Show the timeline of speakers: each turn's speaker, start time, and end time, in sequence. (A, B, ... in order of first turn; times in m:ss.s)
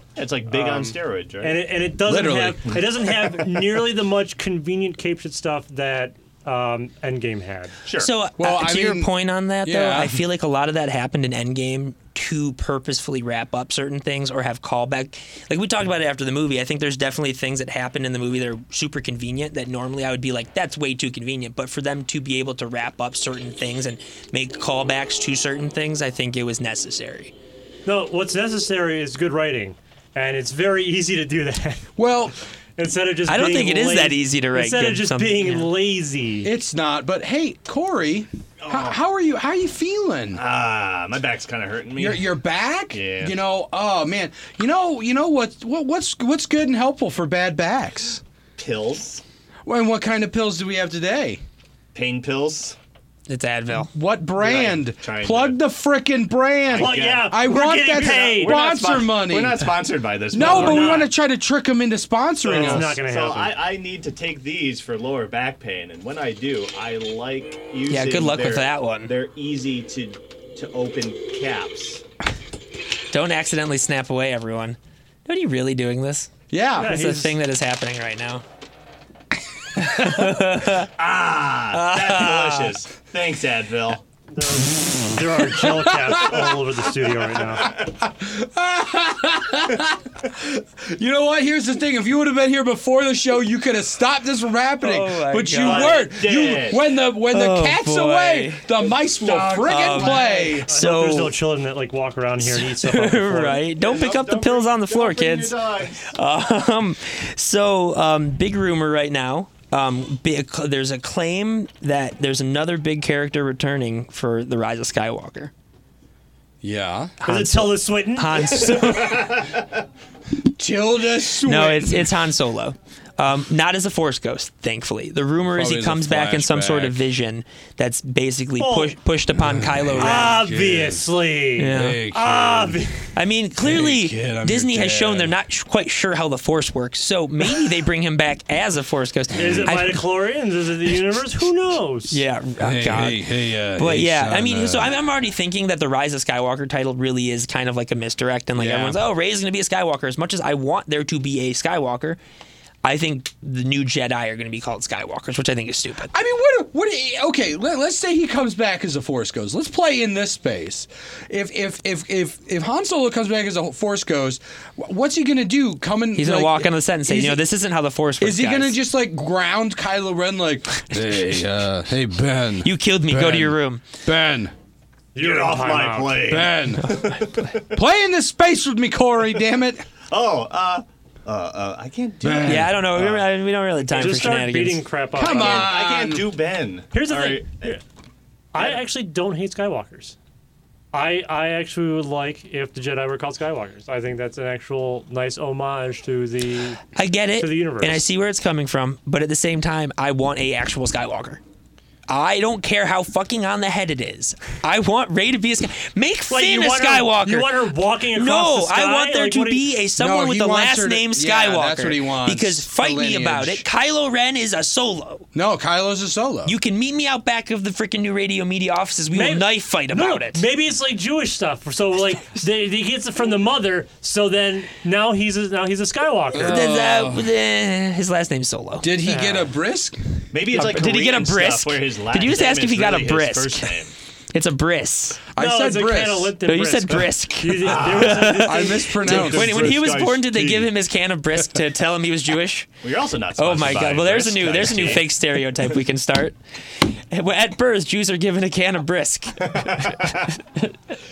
0:00.2-0:01.6 A
0:00.5-0:07.8 B
0:02.0-0:02.8 C
0:07.8-0:08.1 A
0:08.0-0:27.3 D
0:08.4-0:09.1 C
0:09.6-0:10.2 C
0:27.9-0:31.9 B
0:32.0-0:32.4 C
0:32.8-0:36.5 B
0:33.3-0:35.7 D
0:36.4-0:40.4 C
0:38.6-0:39.0 A
0:40.4-0:42.3 A
0:42.0-0:48.2 C
0:42.9-0:43.4 A
0:48.6-0:49.2 A
0:49.6-0:51.4 C
0:51.9-0:52.8 A
0:53.3-0:53.9 D
0:53.7-0:59.7 C
0:54.4-0:55.6 A
0:56.7-0:57.4 A
0:56.8-0:58.6 B
0:57.9-1:01.1 A
1:00.3-1:03.0 C
1:00.4-1:01.1 B
1:02.4-1:12.0 A
1:02.4-1:03.6 B
1:07.9-1:09.1 D
1:13.1-1:18.4 D
1:16.5-1:17.0 C
1:16.8-1:17.4 B
1:19.8-1:20.9 D
1:21.0-1:24.0 A
1:21.7-1:22.8 D
1:24.3-1:27.7 B
1:25.4-1:26.6 C
1:27.6-1:40.7 C
1:34.8-1:36.1 D
1:35.5-1:36.9 A
1:37.3-1:38.7 D
1:38.8-1:40.7 A
1:39.6-1:41.4 D
1:40.7-1:43.6 B
1:42.4-1:55.5 D
1:43.6-1:46.2 A
1:56.6-1:57.2 C
1:57.2-1:59.4 D
1:57.2-1:59.2 B
1:58.9-1:59.6 A
2:00.6-2:02.1 C
2:01.4-2:10.4 D
2:05.5-2:07.0 C
2:08.6-2:09.0 B
2:09.4-2:11.1 C
2:10.0-2:13.2 B
2:11.6-2:12.1 D
2:11.7-2:12.8 C
2:13.2-2:20.1 D
2:13.6-2:15.3 C
2:19.4-2:22.2 B
2:22.1-2:32.2 D
2:22.6-2:24.9 C
2:28.6-2:29.0 C
2:32.8-2:36.1 D
2:36.1-2:47.4 C
2:46.2-2:48.8 D
2:48.2-2:54.5 C
2:52.6-2:53.8 D
2:55.2-2:56.2 B
2:55.2-2:57.6 A
2:56.3-2:57.1 C
2:56.9-2:57.5 D
2:57.6-2:59.9 C
3:00.1-3:03.3 A
3:02.2-3:02.8 C
3:02.4-3:04.9 D
3:03.9-3:05.8 B
3:05.2-3:06.3 C
3:05.2-3:07.8 A
3:06.9-3:07.5 B
3:08.5-3:10.2 B
3:10.9-3:16.8 B
3:16.9-3:21.4 D
3:17.4-3:18.0 B
3:22.1-3:35.3 D
3:26.3-3:29.7 B
3:30.0-3:33.6 C
3:35.3-3:36.6 C
3:36.5-3:40.4 D
3:39.1-3:46.6 B
3:46.3-3:47.3 C
3:46.4-3:48.9 D
3:48.8-3:50.2 C
3:49.0-3:49.5 B
3:50.3-3:53.9 A
3:50.5-3:53.8 D
3:54.3-3:55.2 D
3:55.3-3:56.4 C
3:55.4-3:59.1 B
3:56.4-4:02.7 D
3:57.7-3:58.2 A
3:58.3-3:59.7 C
3:59.0-4:00.7 A
4:02.8-4:05.1 A
4:03.4-4:10.7 D
4:09.4-4:10.3 A